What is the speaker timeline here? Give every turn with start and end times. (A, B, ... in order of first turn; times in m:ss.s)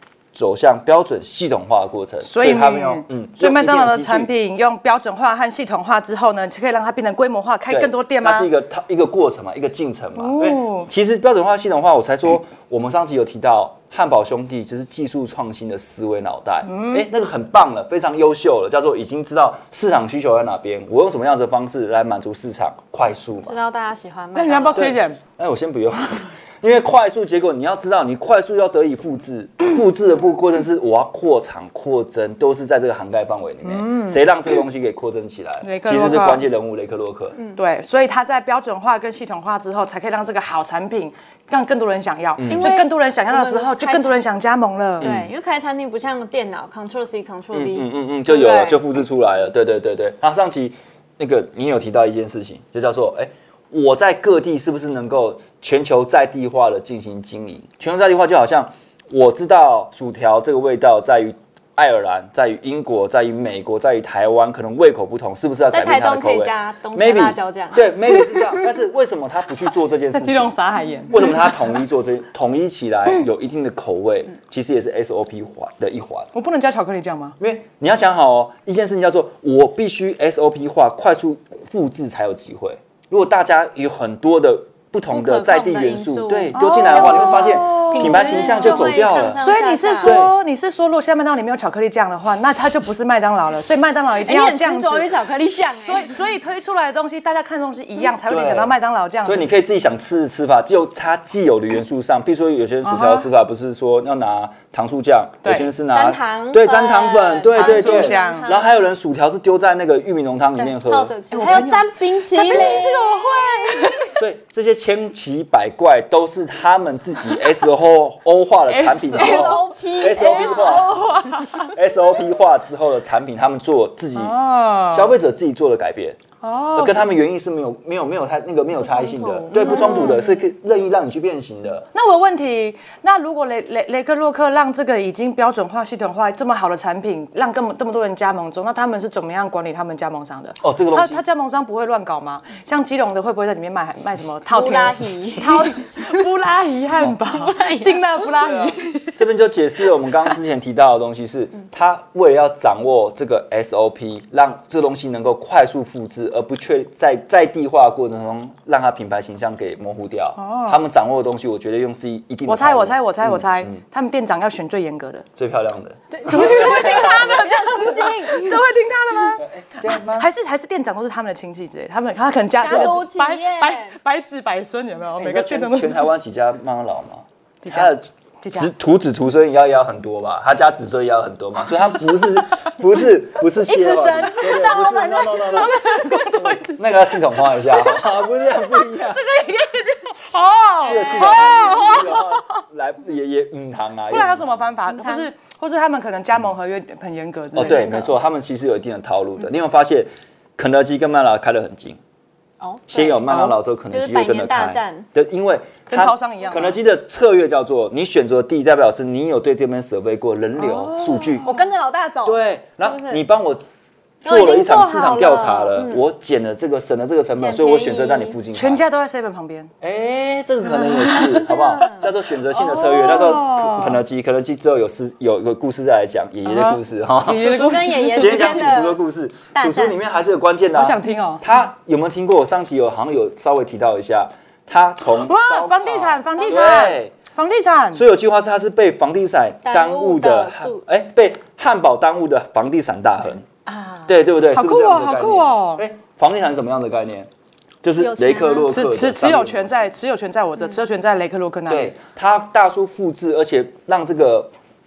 0:00.3-0:04.3 A
0:02.2-0:08.5 B
0:07.7-0:23.6 A
0:10.2-0:10.9 B
0:16.6-0:17.1 B
0:23.4-0:24.9 C
0:24.3-0:25.2 B
0:24.7-0:37.4 A
0:33.6-0:34.2 B
0:35.6-0:36.4 B
0:37.5-0:45.1 B
0:42.4-0:42.7 A
0:42.5-0:44.2 C
0:45.0-0:45.3 A
0:45.0-0:48.9 C
0:47.5-1:10.6 A
1:05.7-1:08.0 C
1:08.2-1:08.6 B
1:10.1-1:11.8 B
1:11.1-1:16.3 A
1:16.3-1:17.4 B
1:17.4-1:29.4 A
1:25.1-1:30.2 C
1:26.5-1:39.5 B
1:30.0-1:30.3 A
1:34.2-1:36.2 C
1:38.2-1:51.1 A
1:42.8-1:43.3 B
1:45.4-1:45.7 B
1:45.9-1:48.8 C
1:47.5-1:48.5 B
1:50.6-1:54.1 C
1:51.3-1:54.2 B
1:52.5-1:52.8 A
1:54.1-2:04.4 A
1:58.7-2:01.8 B
1:59.2-2:01.1 C
2:04.1-2:05.2 B
2:04.9-2:06.2 A
2:06.4-2:07.2 B
2:06.8-2:11.9 A
2:08.8-2:10.4 B
2:09.7-2:10.1 C
2:11.9-2:29.1 B
2:20.6-2:21.2 A
2:24.5-2:25.6 C
2:27.2-2:28.2 C
2:28.4-2:43.8 A
2:40.4-2:40.8 B
2:42.4-2:45.2 B
2:45.4-2:47.5 A
2:46.1-2:48.6 C
2:46.2-2:56.1 B
2:49.4-2:50.3 A
2:52.6-2:53.9 C
2:55.2-3:09.2 A
2:57.6-2:58.7 B
3:03.7-3:04.8 C
3:04.2-3:08.2 B
3:09.2-3:12.5 B
3:10.8-3:14.5 A
3:11.5-3:12.0 C
3:14.1-3:18.1 B
3:14.9-3:15.3 C
3:17.5-3:22.0 A
3:22.6-3:23.2 C
3:22.9-3:31.5 A
3:23.2-3:23.6 B
3:23.9-3:25.1 C
3:25.9-3:26.8 B
3:30.6-3:31.7 B
3:31.4-3:33.2 C
3:32.2-3:33.6 A
3:34.2-3:36.0 C
3:34.2-3:38.8 A
3:37.4-3:38.4 C
3:38.5-3:39.7 B
3:39.8-3:57.1 A
3:40.6-3:41.5 B
3:41.2-3:42.1 C
3:42.5-3:44.0 B
3:46.4-3:48.8 B
3:47.3-3:49.0 C
3:49.5-3:50.0 C
3:50.7-3:51.4 B
3:55.0-3:58.0 B
3:56.4-3:56.7 C
3:57.9-4:03.4 A
3:59.6-4:00.8 C
4:03.7-4:05.8 B
4:04.1-4:07.3 A
4:07.8-4:09.9 A
4:08.0-4:08.7 C
4:08.6-4:11.9 B
4:11.7-4:14.5 A